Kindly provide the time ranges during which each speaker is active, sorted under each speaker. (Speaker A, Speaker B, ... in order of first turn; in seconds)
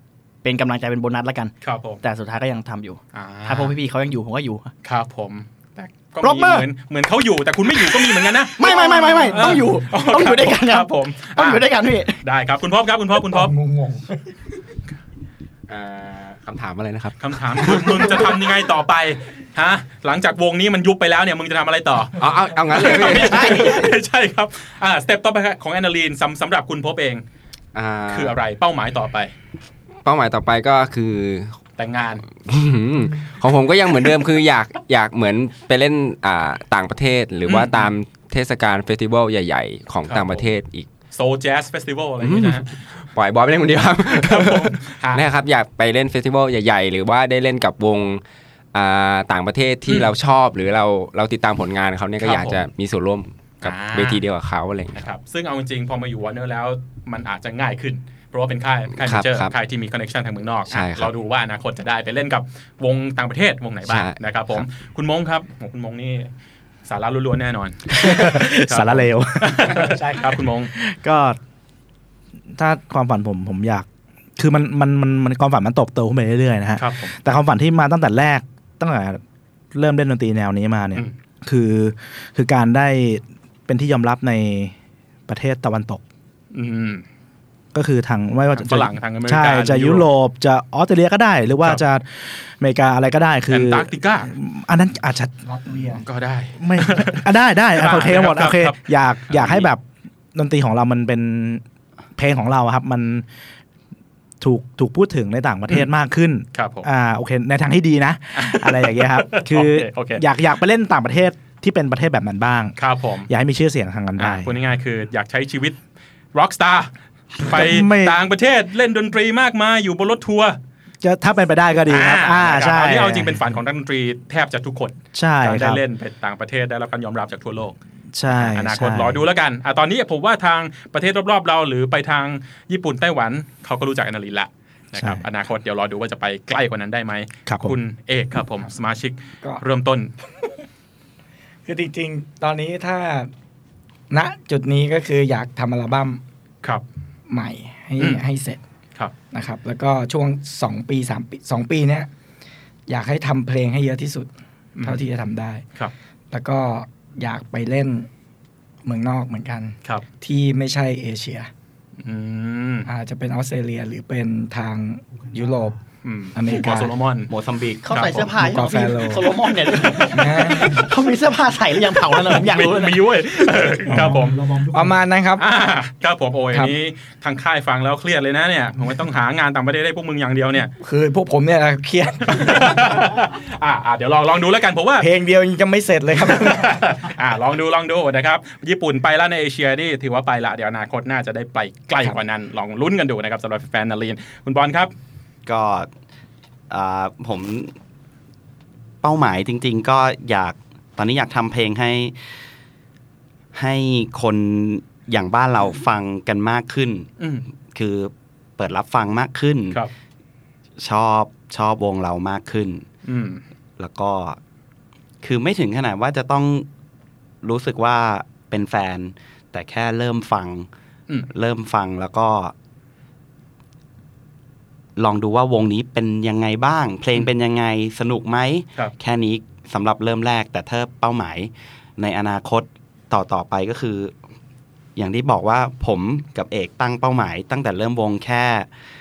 Speaker A: 0.4-4.7, 6.2-6.7, 7.8-12.2, 167.8-173.2
Speaker B: 1.6-2.0, 3.1-3.7, 4.8-11.6, 12.2-13.5, 17.2-27.2, 28.1-29.3, 31.8-32.2, 37.5-37.9, 40.0-40.5, 41.1-42.7, 44.1-45.2, 49.9-50.1, 52.2-52.6, 53.6-54.2, 55.0-66.3, 66.9-70.7, 76.8-77.2, 86.5-87.0, 88.5-90.1, 93.5-94.3, 96.0-97.2, 97.8-98.8, 99.3-99.6, 106.5-106.9, 108.4-110.2, 112.8-113.3, 114.2-115.8, 116.3-120.6, 121.9-127.8, 128.3-140.1, 154.8-155.0, 162.0-162.9, 166.0-167.3, 167.9-168.3, 172.3-174.4, 175.4-180.7, 182.3-185.1, 186.3-194.9, 207.2-207.4, 213.1-213.4
Speaker C: 13.3-14.2, 95.4-96.0, 141.7-143.3, 144.1-146.2, 147.3-148.6, 149.3-152.1, 152.9-154.3, 154.8-155.6, 156.3-158.1, 158.8-161.5, 162.9-165.8, 166.3-166.9, 168.4-169.3, 170.0-170.9, 173.9-174.2, 174.7-175.5, 180.8-183.1, 185.0-186.8
Speaker D: 15.7-18.4, 22.2-23.9, 27.7-28.4, 30.0-31.6, 32.4-40.9, 42.2-48.2, 48.7-55.1, 59.0-59.5, 60.7-61.1, 63.9-64.6
Speaker E: 67.9-71.4, 72.5-73.9, 74.4-79.2, 79.7-84.7, 85.3-86.0, 87.7-95.8, 96.6-99.8, 100.3-101.6, 102.2-103.3, 104.4-112.8, 113.3-114.5, 117.4-118.2, 121.0-123.4, 125.2-125.8, 128.1-129.2, 134.9-135.2, 137.5-137.8, 173.9-175.0
Speaker F: 167.3-168.1, 195.5-195.9, 196.7-197.7, 199.0-202.2, 203.5-207.1, 207.7-209.8, 210.8-212.9, 213.8-214.4, 215.2-216.7, 217.4-220.7, 221.3-222.5, 225.0-234.1, 235.0-238.7